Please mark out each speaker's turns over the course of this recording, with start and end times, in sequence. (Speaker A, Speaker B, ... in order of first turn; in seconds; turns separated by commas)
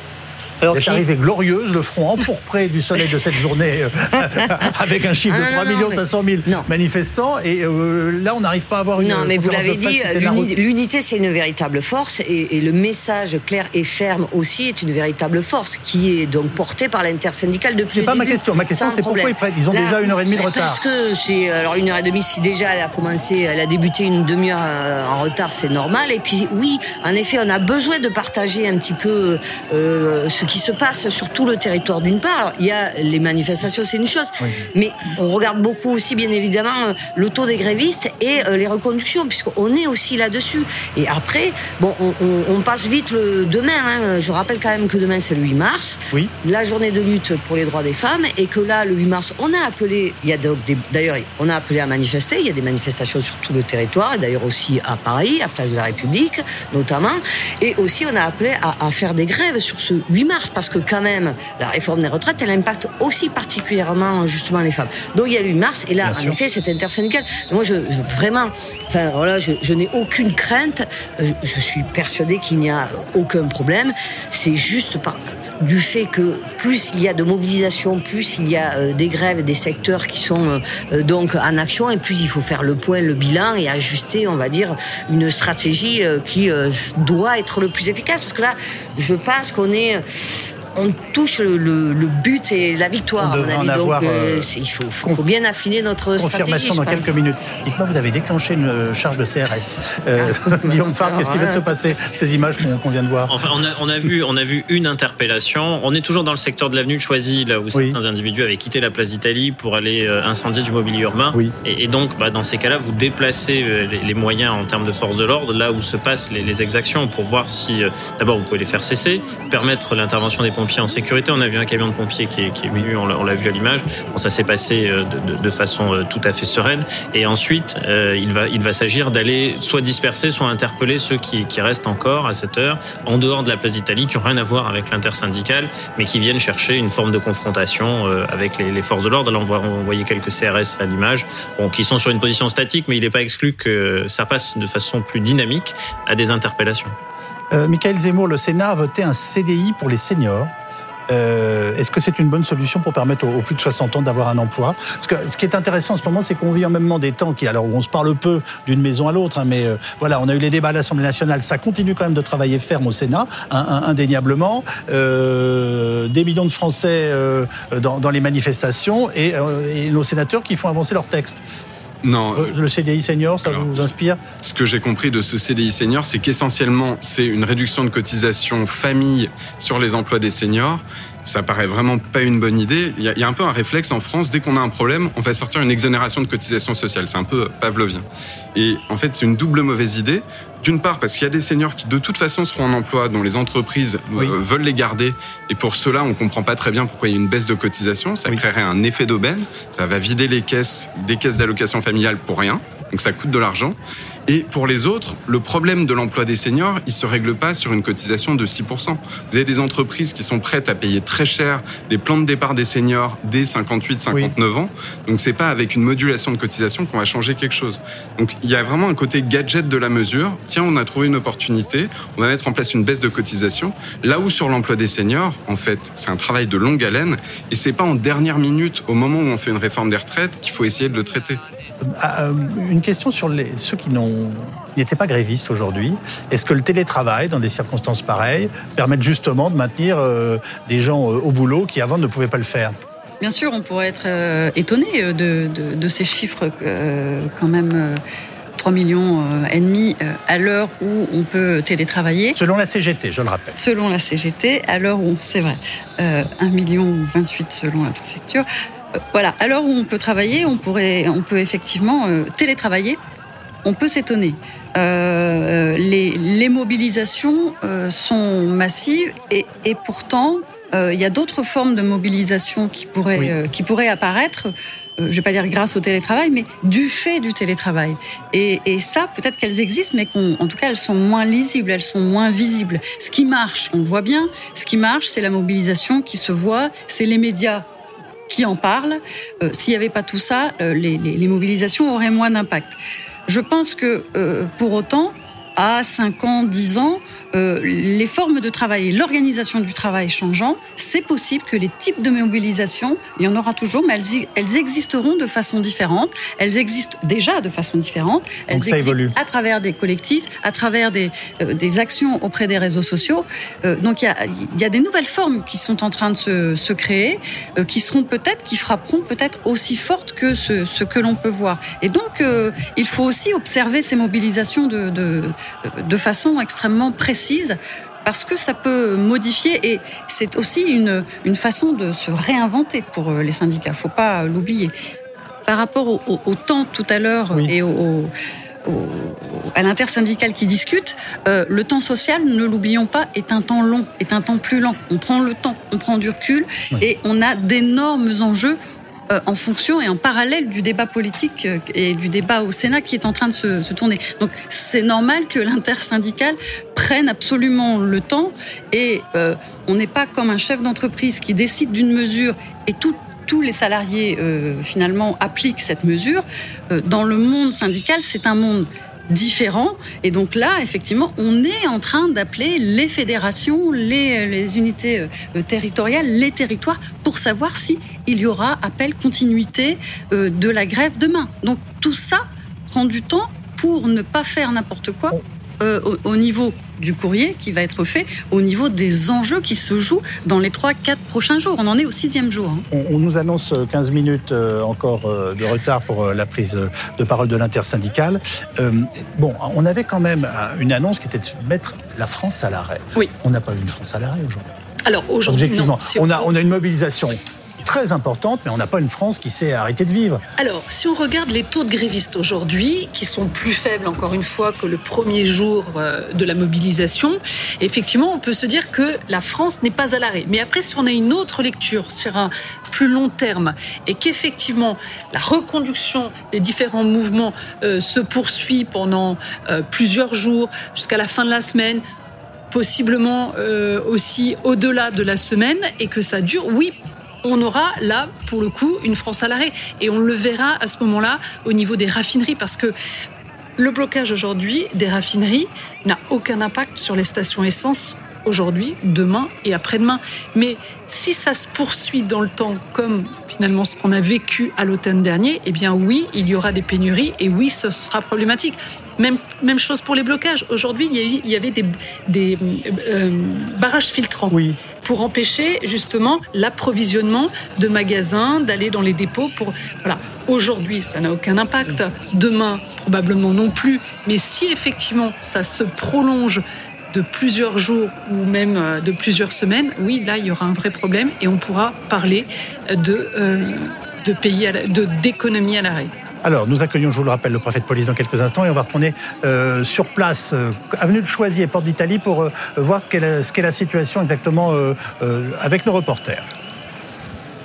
Speaker A: 0.6-1.0, Speaker B: 0.7-10.5, Speaker A: 4.2-4.7, Speaker A: 5.3-6.7, Speaker A: 9.0-90.0, Speaker B: 17.8-20.8, Speaker B: 66.0-66.4, Speaker A: 90.7-97.1, Speaker B: 93.2-94.5, Speaker B: 96.2-103.3, Speaker A: 100.2-101.7, Speaker C: 103.3-146.9, Speaker B: 147.5-150.5, Speaker B: 151.1-171.4, Speaker D: 172.0-172.6, Speaker B: 172.3-174.2, Speaker D: 173.4-173.7, Speaker D: 174.4-203.8, Speaker D: 204.3-231.4, Speaker B: 231.8-242.8, Speaker E: 243.2-248.0, Speaker E: 248.6-252.4, Speaker B: 252.3-253.6, Speaker E: 253.6-258.5, Speaker E: 259.1-263.0, Speaker E: 263.6-287.7, Speaker E: 288.3-292.7, Speaker E: 293.3-334.7, Speaker B: 308.5-309.1, Speaker E: 335.5-338.1, Speaker E: 338.6-348.6, Speaker E: 349.1-392.6, Speaker B: 392.7-404.4, Speaker F: 404.8-406.3, Speaker B: 405.2-410.2, Speaker F: 410.4-431.8, Speaker F: 432.5-442.7, Speaker F: 443.6-485.9, Speaker B: 464.3-464.6, Speaker B: 486.2-496.3